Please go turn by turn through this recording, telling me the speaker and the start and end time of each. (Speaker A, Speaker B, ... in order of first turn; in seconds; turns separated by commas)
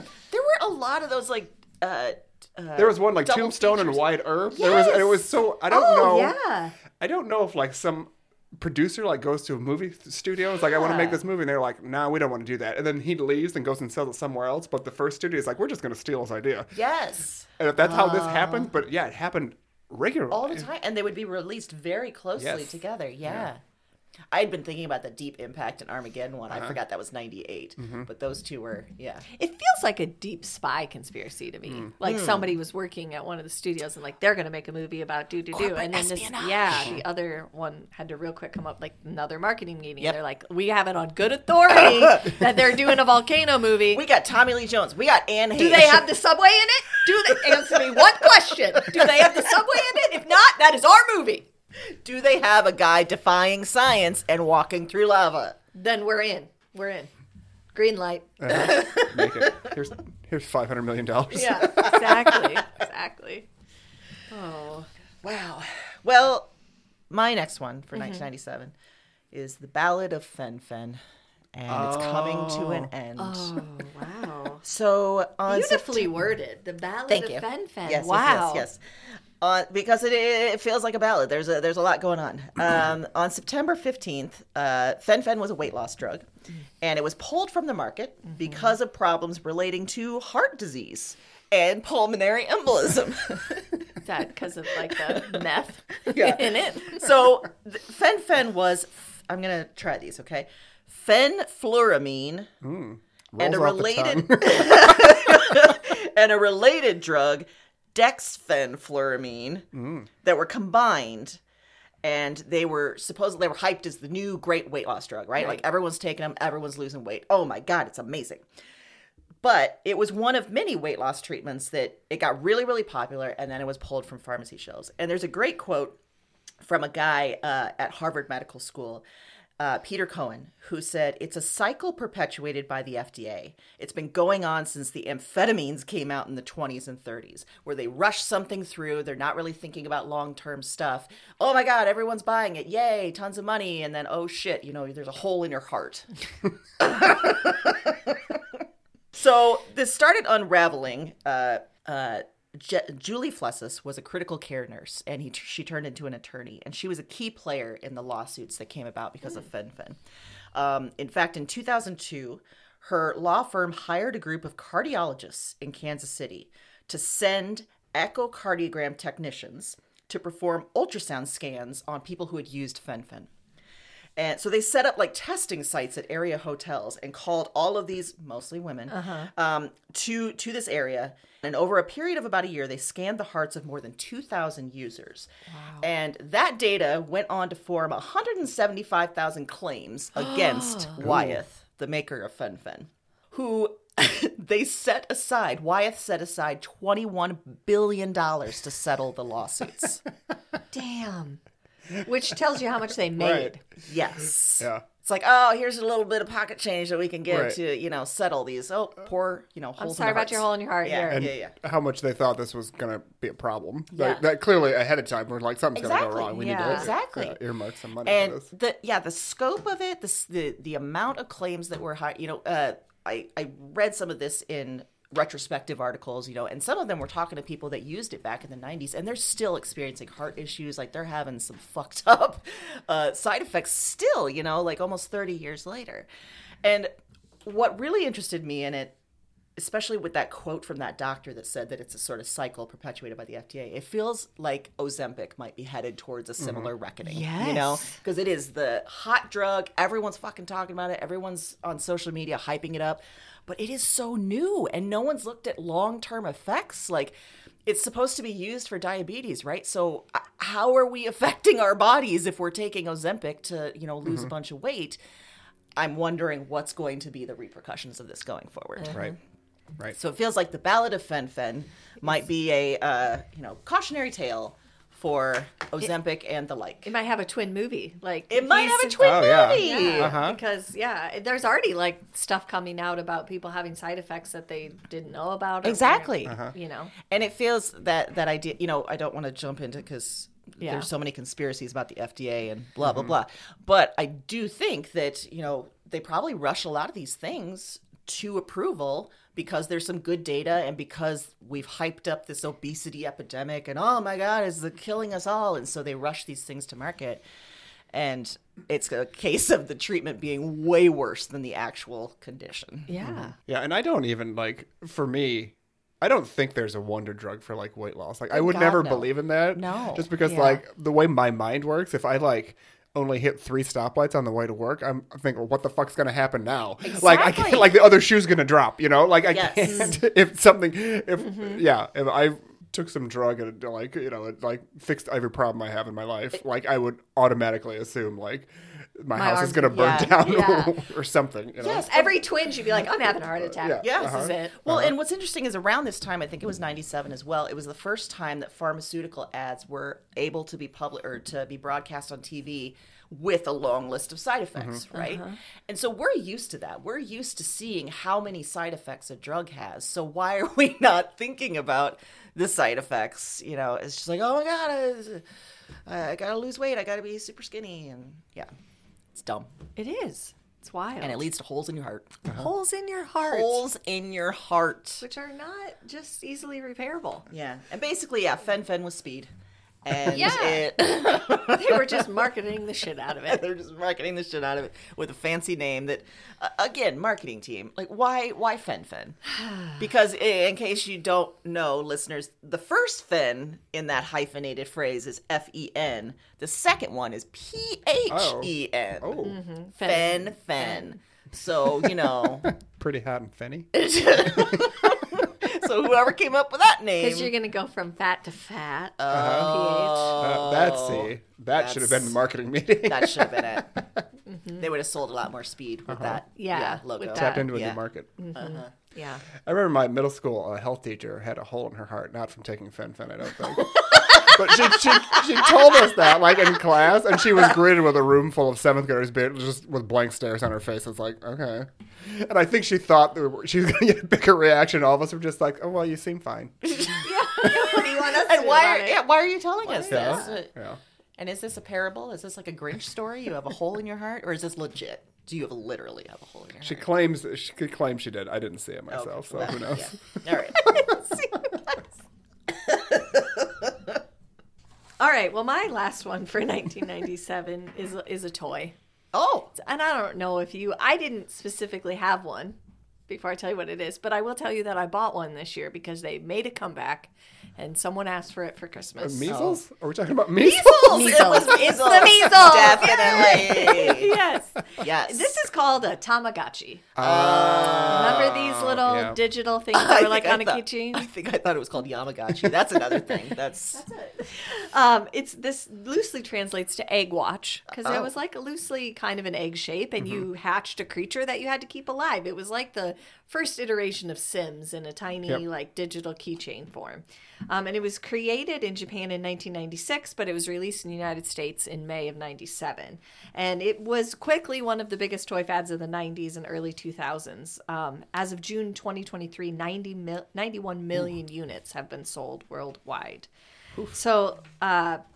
Speaker A: 0.3-4.1, Speaker B: 2.8-6.3, Speaker C: 4.6-5.2, Speaker A: 4.6-4.9, Speaker C: 5.7-6.8, Speaker B: 7.0-16.7, Speaker A: 10.7-11.2, Speaker A: 16.8-18.7, Speaker B: 17.6-20.7, Speaker A: 20.3-23.6, Speaker B: 22.4-23.5, Speaker A: 24.3-29.3, Speaker B: 26.5-26.8, Speaker B: 27.8-28.1, Speaker C: 29.3-44.0, Speaker B: 31.7-31.9, Speaker A: 32.0-32.5, Speaker A: 35.5-37.0, Speaker B: 36.7-37.0, Speaker A: 43.9-46.1, Speaker C: 45.5-51.5, Speaker A: 47.3-48.2, Speaker A: 48.8-49.5, Speaker A: 51.9-55.6, Speaker C: 55.8-57.1, Speaker C: 57.7-59.1, Speaker B: 58.4-62.2, Speaker A: 58.6-59.7, Speaker C: 61.3-63.5, Speaker A: 61.7-62.6, Speaker C: 64.3-64.9, Speaker A: 65.2-66.5, Speaker A: 67.1-68.7, Speaker C: 67.9-68.3, Speaker A: 69.3-71.0, Speaker A: 71.5-73.6, Speaker B: 71.7-72.9, Speaker C: 73.2-74.6, Speaker A: 74.6-76.1, Speaker C: 75.5-78.7, Speaker A: 77.1-86.3, Speaker A: 86.8-94.0, Speaker C: 88.3-88.8, Speaker C: 94.0-97.1, Speaker A: 94.9-95.5, Speaker A: 96.0-102.5, Speaker B: 102.6-105.8, Speaker A: 103.4-109.7, Speaker B: 109.7-110.1, Speaker A: 110.2-111.4, Speaker A: 112.0-118.4, Speaker C: 115.4-115.6, Speaker A: 119.4-126.0, Speaker A: 126.6-129.0, Speaker A: 129.6-146.1, Speaker A: 146.8-148.6, Speaker A: 149.1-160.0, Speaker A: 160.5-173.3, Speaker A: 174.2-185.3, Speaker C: 178.9-179.3, Speaker C: 185.5-185.9, Speaker A: 185.8-200.0, Speaker C: 190.2-191.0, Speaker B: 191.0-191.4, Speaker C: 200.7-201.4, Speaker C: 201.9-203.6, Speaker B: 203.2-203.5, Speaker A: 203.8-211.6, Speaker B: 204.6-204.8, Speaker B: 207.3-207.6, Speaker C: 209.8-211.3, Speaker B: 211.1-218.5, Speaker C: 214.0-214.2, Speaker A: 215.8-217.4, Speaker C: 216.3-216.9, Speaker A: 218.1-236.1, Speaker A: 236.6-236.9, Speaker A: 237.4-238.9, Speaker A: 239.6-257.1, Speaker B: 246.4-246.7, Speaker C: 247.1-248.0, Speaker A: 257.7-265.0, Speaker B: 264.1-264.3, Speaker A: 265.8-269.1, Speaker C: 268.8-269.2, Speaker A: 269.9-276.9, Speaker C: 276.9-286.9, Speaker A: 278.3-280.2, Speaker B: 279.0-280.4, Speaker A: 285.6-286.4, Speaker B: 286.3-286.5, Speaker A: 287.1-307.2, Speaker C: 290.6-290.9, Speaker B: 292.9-293.2, Speaker A: 307.9-313.0, Speaker C: 312.9-313.3, Speaker B: 313.0-341.9, Speaker A: 318.3-320.1, Speaker C: 320.2-320.6, Speaker A: 326.8-327.8, Speaker A: 329.3-330.0, Speaker C: 331.2-331.6, Speaker C: 339.1-340.8, Speaker A: 339.7-340.2, Speaker A: 341.6-342.2, Speaker C: 341.9-344.6, Speaker B: 343.4-345.0, Speaker A: 343.8-365.2, Speaker B: 354.6-354.8, Speaker C: 354.9-355.4, Speaker A: 365.9-368.5, Speaker A: 369.1-369.5, Speaker C: 369.8-371.3, Speaker A: 371.0-372.2, Speaker C: 372.3-373.6, Speaker A: 373.2-375.0, Speaker C: 375.0-377.3, Speaker A: 377.3-379.3, Speaker A: 379.9-382.1, Speaker C: 380.1-383.5, Speaker A: 383.3-399.3, Speaker C: 389.4-389.7, Speaker B: 398.1-399.4, Speaker C: 399.2-401.0, Speaker A: 399.8-402.5, Speaker B: 401.8-404.8, Speaker A: 403.8-407.3, Speaker C: 407.0-410.3, Speaker A: 409.0-412.1, Speaker B: 409.1-409.6, Speaker B: 410.2-414.0, Speaker A: 412.8-413.8, Speaker C: 414.3-414.7, Speaker A: 414.6-417.8, Speaker B: 415.9-416.2, Speaker C: 416.4-417.6, Speaker B: 417.1-418.2, Speaker C: 418.2-419.2, Speaker A: 418.4-418.7, Speaker B: 419.4-437.0, Speaker A: 424.0-424.3, Speaker A: 436.6-440.5, Speaker C: 436.9-439.0, Speaker C: 439.6-440.4, Speaker B: 439.9-440.8, Speaker A: 441.2-446.9, Speaker B: 446.6-450.9, Speaker A: 448.9-450.9, Speaker C: 450.5-451.9, Speaker A: 452.5-453.9, Speaker C: 455.0-458.8, Speaker A: 459.1-459.5, Speaker C: 459.5-462.6, Speaker C: 463.1-469.4, Speaker B: 469.0-471.6, Speaker A: 469.3-469.6, Speaker A: 470.4-474.2, Speaker C: 470.9-476.9, Speaker A: 474.8-475.3, Speaker B: 477.0-479.2, Speaker A: 477.0-478.4, Speaker C: 477.9-481.1, Speaker A: 479.7-483.8, Speaker C: 483.7-513.3, Speaker A: 487.8-488.1, Speaker B: 490.0-490.3, Speaker C: 513.9-515.0